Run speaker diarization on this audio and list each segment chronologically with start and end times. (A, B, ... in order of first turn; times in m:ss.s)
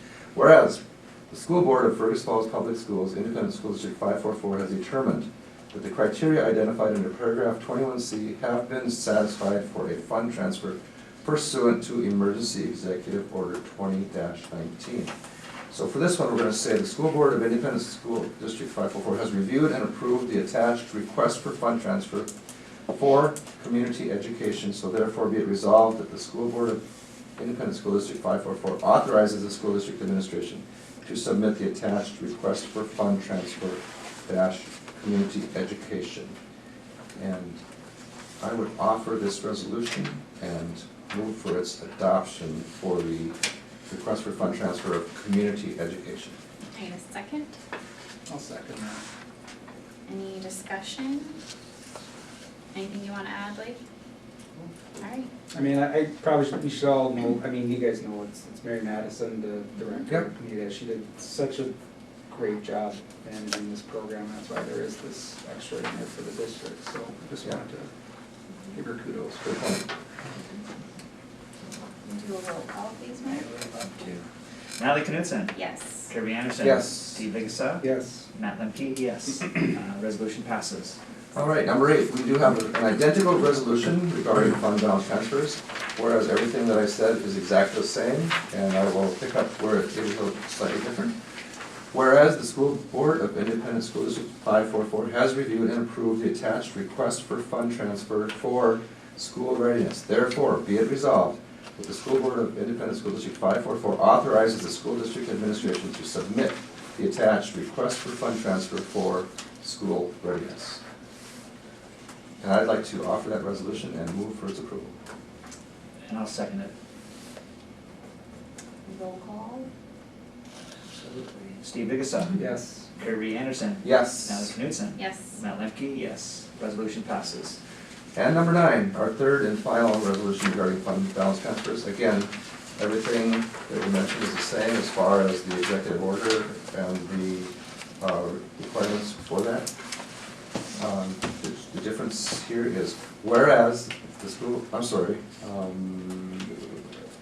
0:00.3-0:00.8 A
0:01.3-0:15.1 A
0:15.7-0:22.3 A
0:22.9-0:26.8 A
0:27.4-0:36.4 A
0:37.1-0:37.6 A
0:38.4-0:43.4 A
0:43.9-0:46.4 A
0:46.7-0:47.6 B
0:48.3-0:49.0 C
0:50.1-0:51.4 B
0:52.7-0:53.8 B
0:55.0-0:55.3 B
0:55.5-1:01.8 C
1:02.3-1:07.9 C
1:08.7-1:09.6 C
1:09.4-1:09.8 A
1:12.0-1:13.5 B
1:13.8-1:14.2 D
1:14.8-1:15.6 D
1:15.5-1:16.1 B
1:16.1-1:21.0 D
1:16.6-1:17.2 A
1:17.8-1:18.2 C
1:21.3-1:31.1 A
1:31.9-1:50.8 A
1:52.4-1:54.9 A
1:56.0-1:56.7 D
1:58.8-1:59.7 B
2:01.0-2:02.4 D
2:02.4-2:02.9 C
2:03.0-2:07.6 D
2:03.8-2:04.5 A
2:05.0-2:05.4 B
2:08.1-2:19.7 A
2:20.8-2:26.8 A